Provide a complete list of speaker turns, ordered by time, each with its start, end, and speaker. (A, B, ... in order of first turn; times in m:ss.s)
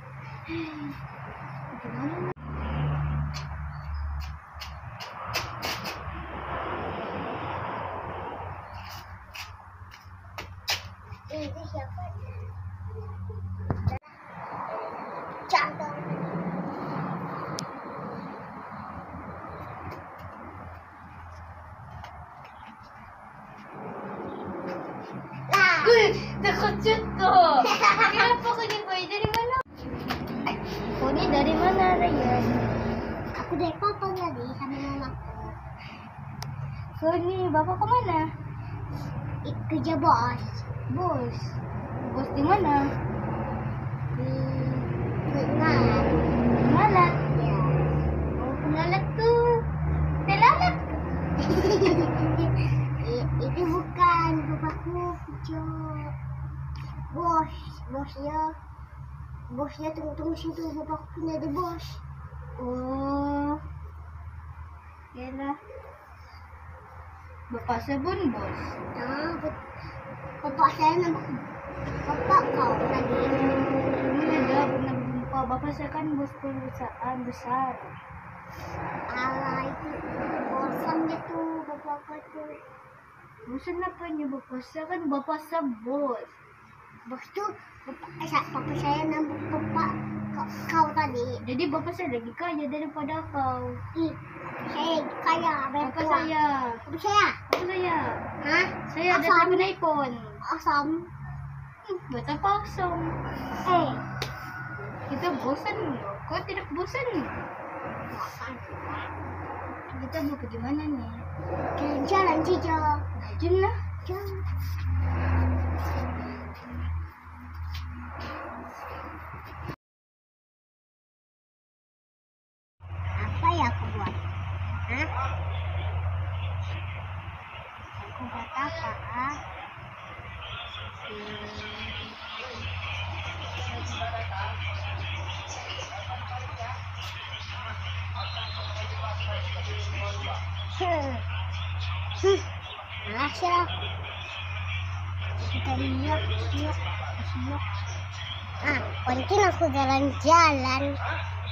0:00.5-0:01.0 A
0:01.7-0:02.3 A
0:11.3-0:12.4 B
0:15.4-0:16.3 B
0:25.5-0:26.1 B
0:25.8-0:29.6 A
0:27.7-0:28.1 B
0:31.0-0:32.5 A
0:33.3-0:35.5 B
0:37.0-0:38.3 A
0:39.4-0:40.6 B
0:40.9-0:42.8 A
0:44.2-0:46.2 B
0:46.6-0:47.2 A
0:47.3-0:47.7 B
0:48.4-0:49.6 A
0:50.2-0:51.0 A
0:51.4-0:52.2 B
0:53.0-0:56.1 B
0:57.1-0:58.6 B
0:59.5-1:02.0 B
1:02.6-1:03.6 A
1:05.1-1:05.6 A
1:07.5-1:08.7 A
1:08.9-1:09.6 B
1:10.4-1:11.4 B
1:12.0-1:13.5 B
1:13.3-1:17.9 A
1:19.1-1:22.5 B
1:23.5-1:26.3 A
1:27.0-1:31.4 B
1:31.4-1:33.8 A
1:33.9-1:36.3 B
1:35.8-1:36.8 A
1:36.8-1:37.4 B
1:37.5-1:38.2 A
1:38.4-1:39.7 B
1:38.9-1:40.4 A
1:40.4-1:41.1 B
1:41.9-1:43.2 A
1:43.6-1:44.0 B
1:45.1-1:47.3 A
1:48.1-1:49.1 B
1:49.9-1:51.2 A
1:51.8-1:53.0 B
1:53.2-1:53.8 A
1:54.0-1:54.4 B
2:03.2-2:04.2 B
2:08.0-2:09.4 B
2:11.1-2:11.9 B
2:20.7-2:21.2 B
2:22.2-2:22.4 B
2:23.0-2:23.7 B
2:25.4-2:26.8 B
2:28.6-2:31.0 B